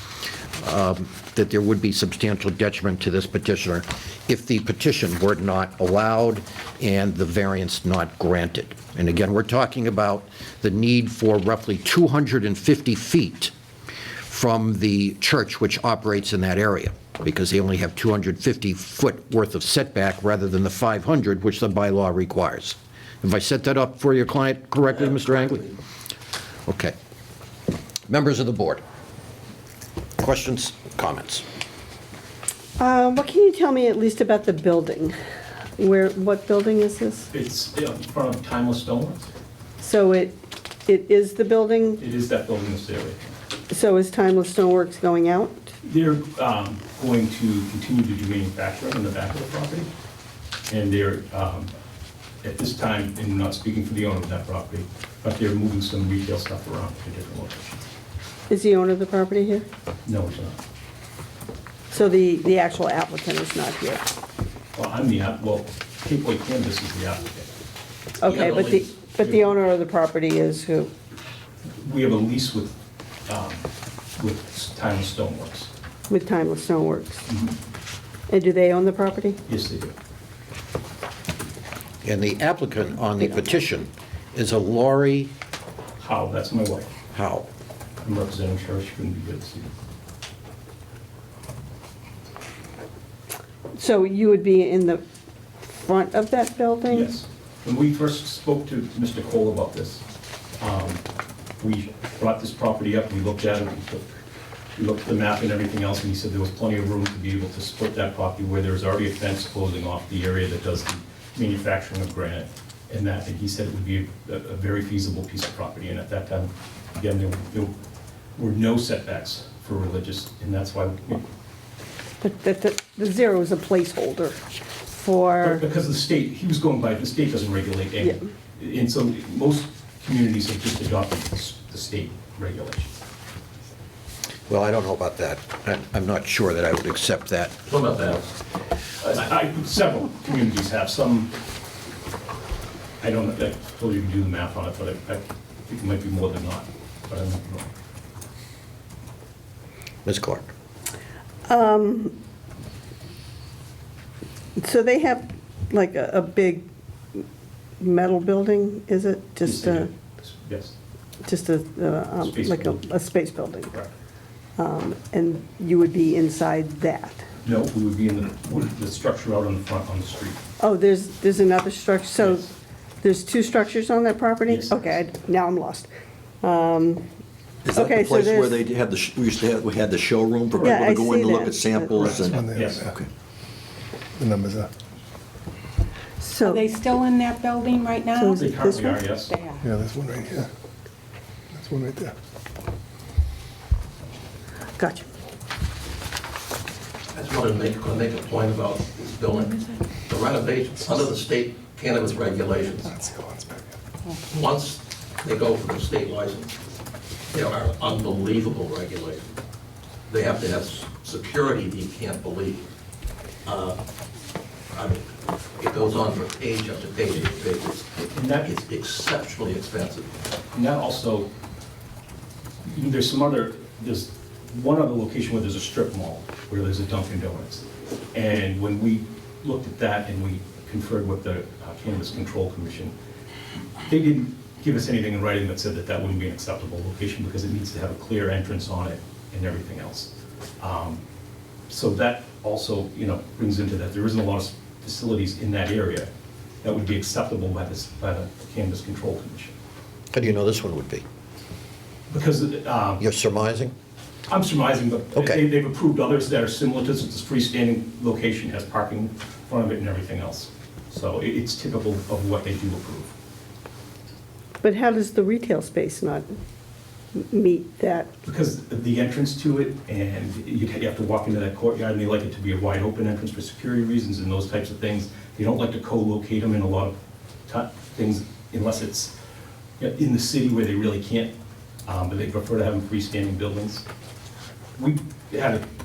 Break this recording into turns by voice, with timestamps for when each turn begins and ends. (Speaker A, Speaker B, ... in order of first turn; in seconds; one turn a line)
Speaker A: 0.6-13.5
Speaker A: 14.3-25.7
Speaker B: 24.9-25.6
Speaker A: 26.7-26.9
Speaker A: 28.1-28.8
Speaker A: 30.2-31.4
Speaker C: 32.8-35.1
Speaker C: 35.8-37.3
Speaker D: 37.3-39.3
Speaker C: 39.8-42.0
Speaker D: 42.0-43.4
Speaker C: 43.7-45.7
Speaker D: 45.8-49.9
Speaker D: 50.7-51.7
Speaker D: 52.4-57.8
Speaker C: 58.5-59.6
Speaker D: 60.0-60.6
Speaker C: 61.9-64.1
Speaker D: 64.7-67.5
Speaker C: 68.2-70.9
Speaker B: 68.3-68.8
Speaker D: 69.0-69.5
Speaker D: 71.8-72.7
Speaker D: 73.3-73.6
Speaker D: 74.2-75.7
Speaker C: 76.1-77.3
Speaker D: 77.3-77.5
Speaker C: 78.3-79.4
Speaker D: 79.5-79.9
Speaker A: 82.0-85.3
Speaker C: 83.2-83.6
Speaker D: 86.0-86.9
Speaker A: 87.1-87.5
Speaker D: 88.0-89.7
Speaker C: 93.8-95.0
Speaker C: 95.7-97.1
Speaker D: 96.9-100.0
Speaker D: 100.6-101.0
Speaker D: 101.6-104.1
Speaker D: 104.8-117.7
Speaker D: 118.3-121.2
Speaker C: 122.2-124.4
Speaker C: 125.0-125.6
Speaker D: 125.4-132.9
Speaker A: 134.5-137.6
Speaker B: 137.6-138.3
Speaker D: 139.0-141.3
Speaker D: 143.0-147.7
Speaker A: 150.0-150.5
Speaker C: 151.5-152.1
Speaker C: 154.6-157.2
Speaker C: 157.8-159.9
Speaker D: 159.4-160.7
Speaker C: 161.2-163.7
Speaker D: 162.2-162.8
Speaker C: 164.6-167.2
Speaker D: 167.4-170.4
Speaker C: 170.6-172.5
Speaker D: 172.2-172.5
Speaker C: 173.0-175.9
Speaker D: 174.5-175.0
Speaker C: 176.4-177.0
Speaker E: 177.7-178.6
Speaker C: 177.7-178.6
Speaker F: 178.3-180.6
Speaker E: 179.2-183.1
Speaker D: 180.5-180.8
Speaker C: 180.6-182.1
Speaker F: 181.2-182.3
Speaker D: 182.1-182.9
Speaker E: 184.2-184.7
Speaker C: 186.2-186.6
Speaker G: 186.4-188.5
Speaker C: 188.1-189.0
Speaker D: 188.4-189.3
Speaker G: 189.3-189.7
Speaker E: 189.6-190.5
Speaker E: 191.5-192.1
Speaker C: 194.8-195.1
Speaker B: 197.1-202.9
Speaker E: 202.9-203.7
Speaker B: 204.3-206.5
Speaker B: 207.3-209.4
Speaker B: 210.1-212.7
Speaker B: 213.4-213.8
Speaker B: 214.7-220.2
Speaker D: 218.1-218.5
Speaker D: 220.5-221.3
Speaker D: 222.6-232.9
Speaker D: 233.8-241.0
Speaker D: 241.7-246.1
Speaker D: 246.6-249.5
Speaker A: 250.1-251.0
Speaker D: 252.1-253.0
Speaker A: 253.0-253.7
Speaker D: 254.3-263.1
Speaker A: 255.2-255.4
Speaker C: 264.6-266.2
Speaker C: 267.1-268.1
Speaker D: 268.2-276.9
Speaker D: 277.5-279.1
Speaker D: 279.8-281.3
Speaker D: 281.9-283.8
Speaker D: 284.8-285.6